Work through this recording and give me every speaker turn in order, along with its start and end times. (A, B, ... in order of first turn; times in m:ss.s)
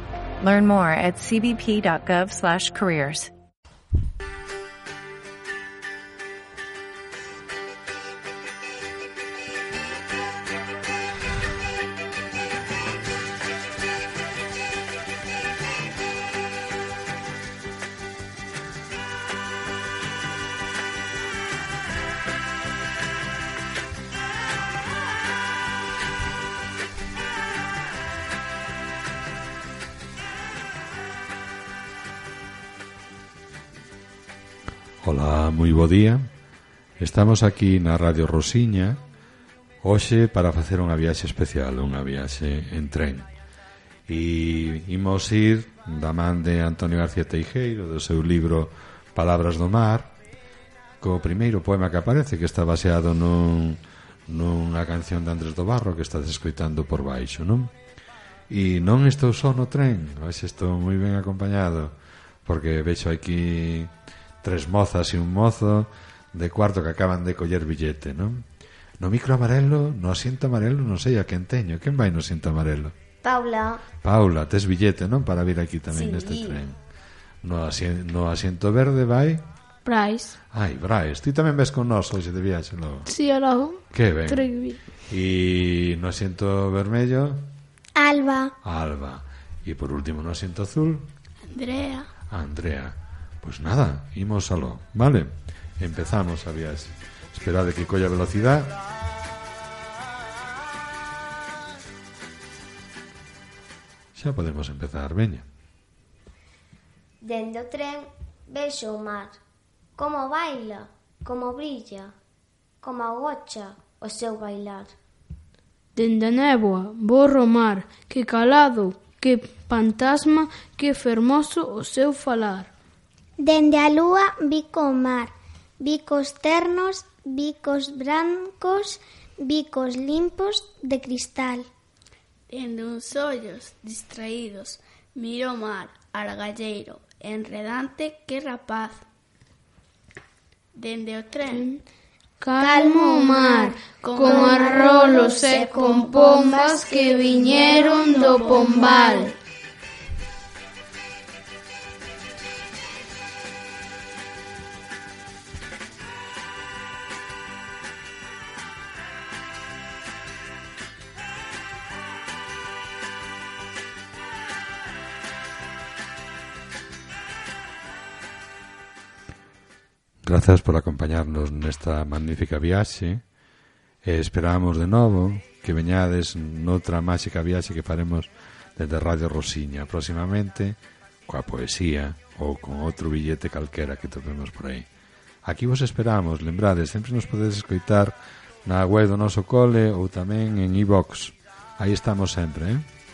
0:00.4-0:03.3 A
0:35.0-0:36.2 B
0:37.0-0:39.0 B
0:39.8-0:43.3 B
0:44.1-0:50.1 B
0:51.0-0:57.7 B
0:58.5-1:08.4 B
1:09.0-1:12.9 B
1:13.2-1:13.8 C
1:14.0-1:16.8 B
1:15.9-1:16.6 C
1:17.4-1:19.4 B
1:19.8-1:20.4 D
1:20.5-1:23.1 B
1:23.1-1:24.8 D
1:23.9-1:24.5 B
1:25.0-1:27.5 B
1:28.0-1:28.5 E
1:28.6-1:31.1 B
1:31.5-1:32.1 F
1:32.3-1:38.8 B
1:44.1-1:45.4 B
1:47.2-1:49.4 C
1:50.0-1:52.1 C
1:52.8-1:54.9 C
1:56.0-2:02.7 D
2:03.4-2:11.7 E
2:12.5-2:19.0 F
2:20.7-2:21.6 F
2:21.5-2:21.8 D
2:22.4-2:29.3 D
2:22.6-2:23.7 E
2:24.0-2:29.3 F
2:25.1-2:25.7 E
2:50.2-2:53.2 B
2:54.0-3:04.9 B
3:05.4-3:12.8 B